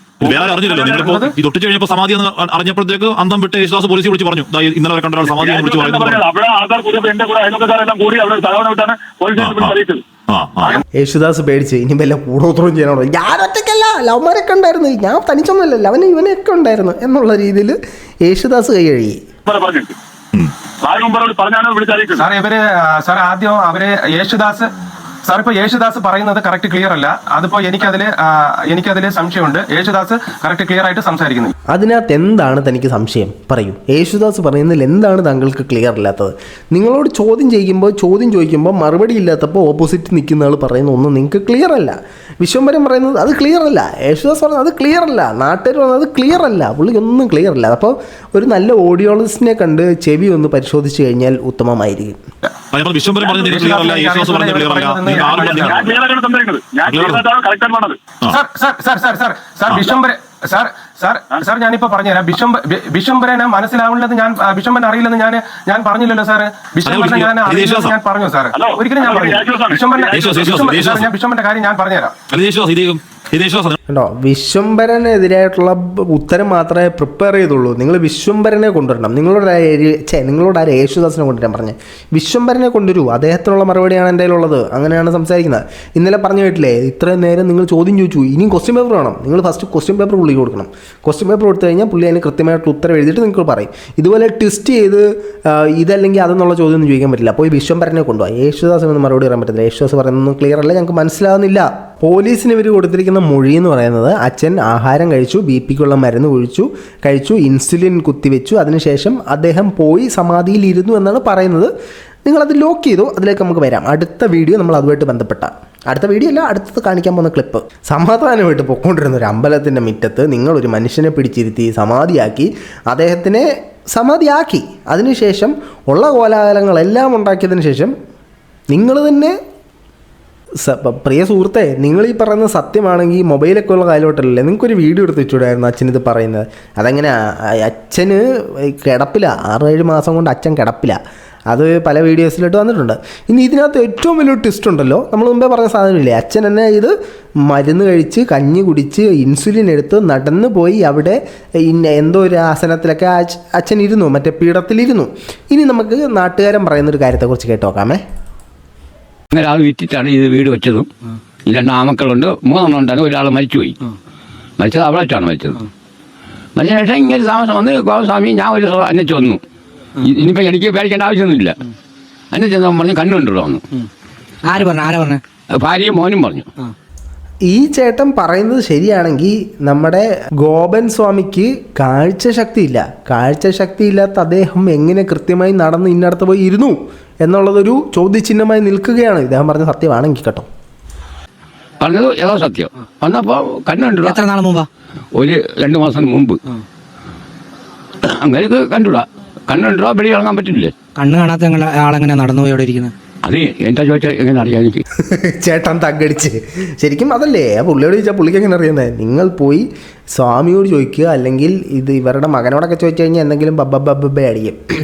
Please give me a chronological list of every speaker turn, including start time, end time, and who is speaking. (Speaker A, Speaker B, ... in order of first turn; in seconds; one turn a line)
Speaker A: 0.2-6.2
Speaker B: 0.6-1.3
Speaker C: 5.4-10.0
Speaker A: 9.3-10.8
Speaker D: 10.9-19.2
Speaker C: 19.5-20.0
Speaker C: 20.8-22.2
Speaker B: 22.2-24.7
Speaker B: 25.2-31.5
Speaker D: 31.7-52.2
Speaker A: 52.7-55.9
Speaker B: 53.2-56.0
Speaker C: 55.6-58.0
Speaker A: 56.9-57.2
Speaker B: 58.3-72.2
Speaker A: 59.7-60.0
Speaker A: 66.9-68.0
Speaker C: 68.5-70.2
Speaker A: 70.1-71.1
Speaker A: 72.3-73.8
Speaker D: 73.9-111.7
Speaker D: 112.3-127.9
Speaker D: 128.7-129.4
Speaker D: 130.6-146.9
Speaker D: 147.4-158.0
Speaker E: 159.3-160.9
Speaker E: 161.5-163.9
Speaker E: 164.6-165.6
Speaker E: 166.6-169.4
Speaker E: 170.0-171.7
Speaker E: 172.3-173.6
Speaker F: 174.5-175.2
Speaker E: 175.6-176.5
Speaker D: 177.5-190.5
Speaker E: 191.8-194.2
Speaker F: 194.1-194.7
Speaker E: 195.2-196.4
Speaker E: 198.0-200.7
Speaker F: 201.0-202.9
Speaker E: 203.2-204.8
Speaker D: 205.0-214.6